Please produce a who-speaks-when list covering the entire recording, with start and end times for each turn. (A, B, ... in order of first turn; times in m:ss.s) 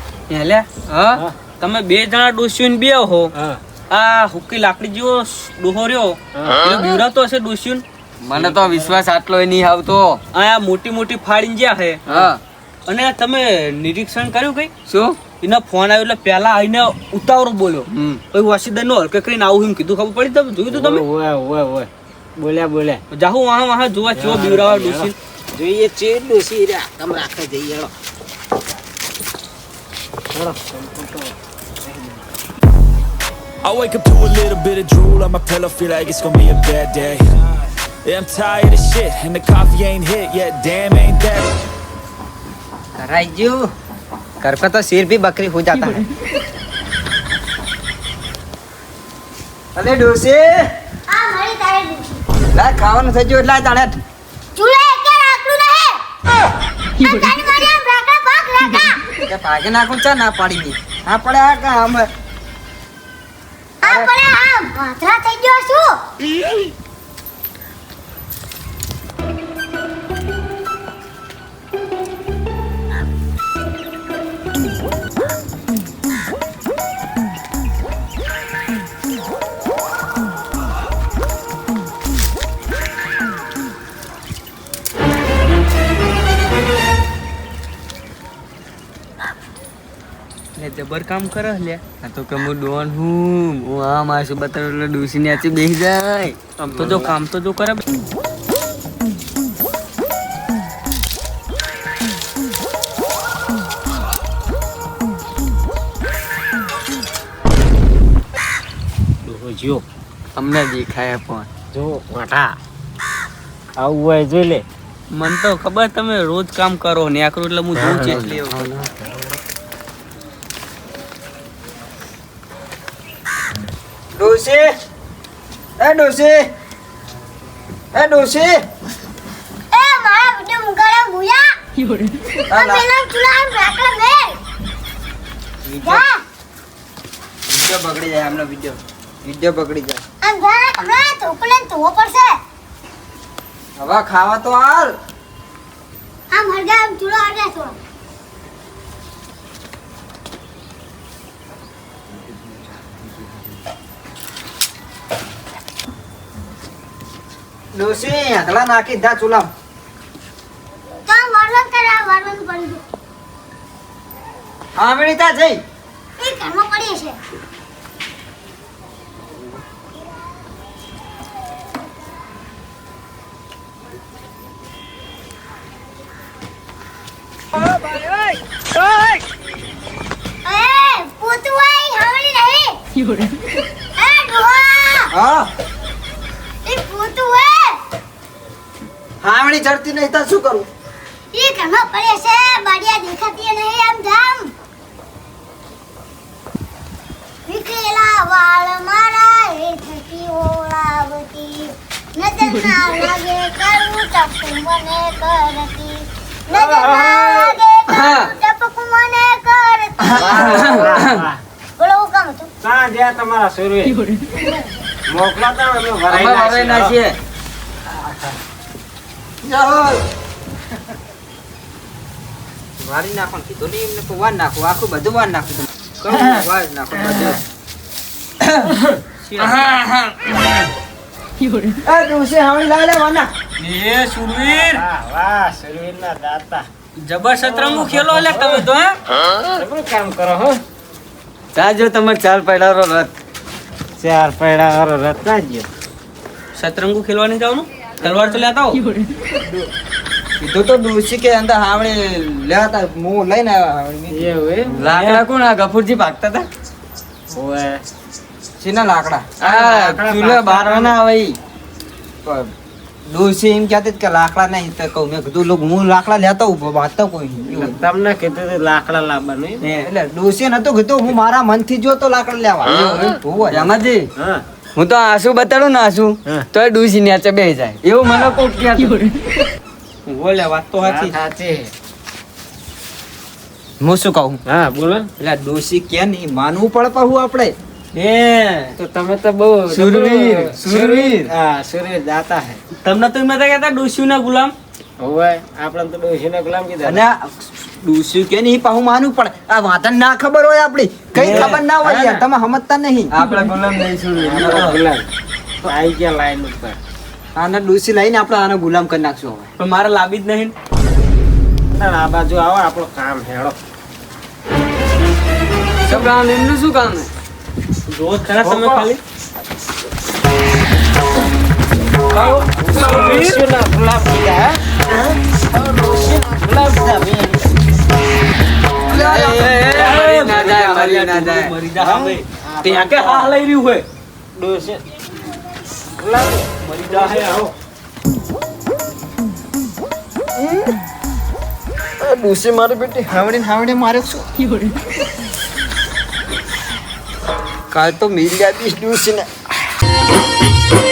0:00.3-0:00.7 A
0:00.3-0:01.2 B
0:01.6-0:03.3 A
0:03.3-0:03.6 C
0:03.9-0:07.8 A
0:06.3-0:06.6 C
0:08.2-0:10.2 B
0:10.3-0:12.0 A
0:12.1-0:12.4 B
0:12.9-0:14.7 A
0:14.9-0:15.2 B
0:15.4-0:21.0 A
0:17.9-0:18.2 B
0:20.7-0:23.0 C
0:23.1-0:25.1 A
0:24.1-0:27.9 C
0:30.3-0:32.2 C
0:33.6-0:37.4 D
0:38.0-0:41.5 D
0:43.0-0:43.7 E
0:44.4-0:46.0 E
0:49.7-0:50.5 E
0:51.1-0:52.2 F
0:52.5-0:54.0 E
0:54.5-0:56.0 F
0:57.0-0:59.0 F
0:59.3-1:02.1 E
1:03.8-1:05.9 F
1:30.6-1:31.8 A
1:32.0-1:37.1 B
1:36.6-1:37.8 A
1:49.2-1:49.8 C
1:50.4-1:51.5 B
1:51.7-1:52.6 C
1:53.8-1:54.6 C
1:55.1-1:58.6 A
1:57.8-1:58.2 C
1:58.0-1:58.9 B
2:04.1-2:04.7 E
2:05.8-2:06.4 E
2:07.9-2:08.6 E
2:09.7-2:11.5 F
2:12.5-2:14.4 F
2:12.5-2:12.8 E
2:15.6-2:16.0 E
2:15.8-2:16.2 F
2:17.5-2:20.0 E
2:20.2-2:22.4 F
2:23.8-2:24.9 E
2:26.3-2:27.8 F
2:37.7-2:39.5 E
2:41.1-2:42.8 F
2:44.8-2:45.6 E
2:46.2-2:47.2 F
3:00.4-3:02.8 F
3:04.0-3:05.1 F
3:05.1-3:05.5 E
3:06.6-3:07.8 F
3:09.2-3:10.6 E
3:11.3-3:14.5 F
3:17.5-3:30.8 F
3:26.5-3:27.6 C
3:27.9-3:28.3 B
3:30.1-3:31.1 B
3:30.1-3:31.4 C
3:31.8-3:32.5 F
3:32.6-3:34.0 C
3:34.3-3:34.8 F
3:35.1-3:37.0 C
3:36.1-3:37.2 B
3:39.4-3:40.0 E
3:42.8-3:47.4 E
3:49.2-3:49.8 A
3:49.4-3:50.2 B
3:51.8-3:53.3 E
3:53.6-3:54.8 A
3:54.3-3:56.7 C
3:57.0-3:59.0 A
3:57.4-3:58.6 C
3:59.5-4:00.6 C
4:01.5-4:03.1 B
4:04.0-4:05.7 C
4:06.6-4:08.8 A
4:09.4-4:09.7 E
4:10.4-4:14.3 E
4:14.1-4:14.8 C
4:14.7-4:16.4 B
4:14.9-4:15.2 A
4:17.3-4:17.8 C
4:18.6-4:19.4 E
4:19.4-4:21.4 B
4:19.4-4:20.6 C
4:20.4-4:20.8 E
4:22.2-4:22.5 E
4:23.1-4:27.8 E
4:27.5-4:29.6 C
4:29.8-4:33.7 E
4:32.7-4:34.1 B
4:34.2-4:34.4 C
4:34.8-4:39.0 B
4:40.1-4:41.1 A
4:40.8-4:41.7 C
4:43.8-4:44.4 E
4:44.5-4:45.1 C
4:45.2-4:47.5 E
4:47.9-4:48.7 A
4:48.8-4:52.6 C
4:49.7-4:51.3 E
4:52.8-4:54.5 A
4:55.0-4:57.0 C
4:56.8-5:03.5 E
5:01.1-5:01.6 A
5:01.2-5:02.2 C
5:03.2-5:04.5 A
5:04.2-5:05.1 C
5:04.3-5:04.8 E
5:05.6-5:06.8 C
5:07.4-5:09.5 E
5:09.6-5:10.5 A
5:11.7-5:13.6 C
5:15.8-5:17.1 B
5:17.9-5:19.0 A
5:18.4-5:18.9 E
5:22.1-5:23.4 A
5:22.6-5:24.6 C
5:25.3-5:27.4 C
5:28.9-5:29.5 E
5:28.9-5:31.5 B
5:29.6-5:33.8 A
5:31.9-5:33.4 C
5:34.3-5:34.8 C
5:36.0-5:37.4 C
5:36.6-5:37.5 A
5:40.4-5:40.8 E
5:42.0-5:44.2 E
5:47.7-5:49.3 E